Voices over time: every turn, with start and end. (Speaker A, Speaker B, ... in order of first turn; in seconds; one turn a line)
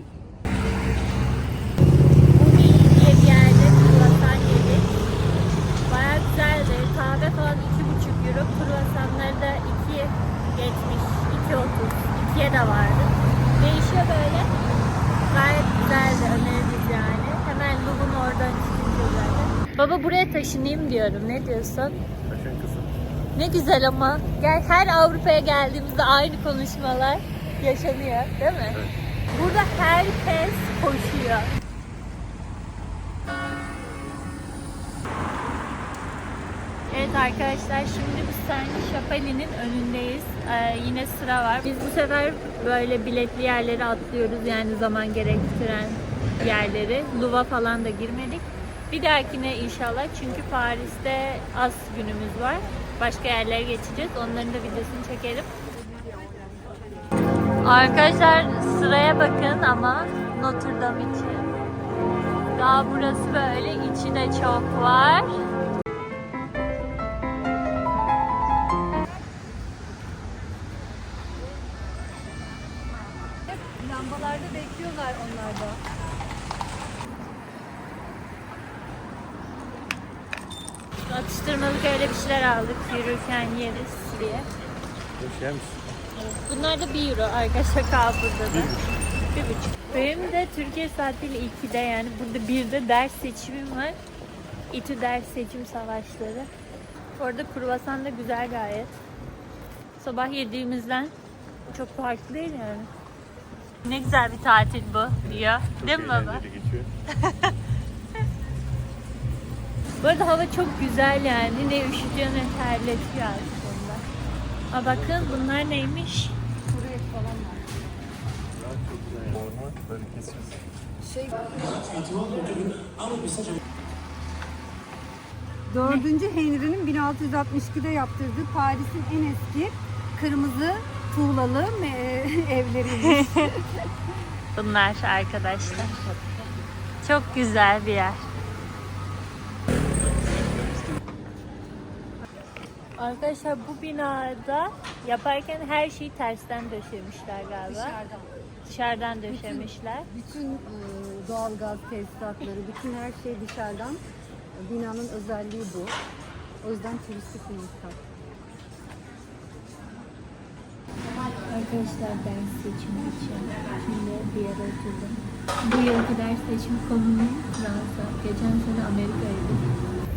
Speaker A: 2.3-4.9
Speaker A: 5.8-14.5
Speaker A: 15.3-22.0
Speaker B: 22.3-22.9
Speaker A: 23.3-31.6
Speaker A: 36.9-55.5
Speaker A: 57.6-61.5
Speaker A: 62.5-65.4
Speaker C: 73.6-75.8
Speaker A: 81.0-84.5
Speaker B: 85.2-85.8
Speaker A: 86.2-88.8
Speaker A: 89.3-94.0
Speaker A: 94.7-96.5
Speaker A: 97.2-99.0
Speaker A: 100.0-101.1
Speaker A: 101.7-102.9
Speaker A: 103.8-106.4
Speaker B: 105.6-106.9
Speaker A: 107.1-107.5
Speaker A: 110.0-114.0
Speaker A: 114.7-116.3
Speaker C: 116.7-117.7
Speaker B: 118.6-120.6
Speaker C: 121.0-122.3
Speaker C: 125.7-133.5
Speaker A: 132.9-133.6
Speaker A: 134.5-136.1
Speaker A: 137.0-138.2
Speaker A: 143.0-148.0
Speaker C: 147.7-148.2
Speaker A: 148.6-150.1
Speaker C: 149.3-154.0
Speaker C: 154.5-156.0
Speaker C: 156.6-158.0
Speaker A: 161.5-169.7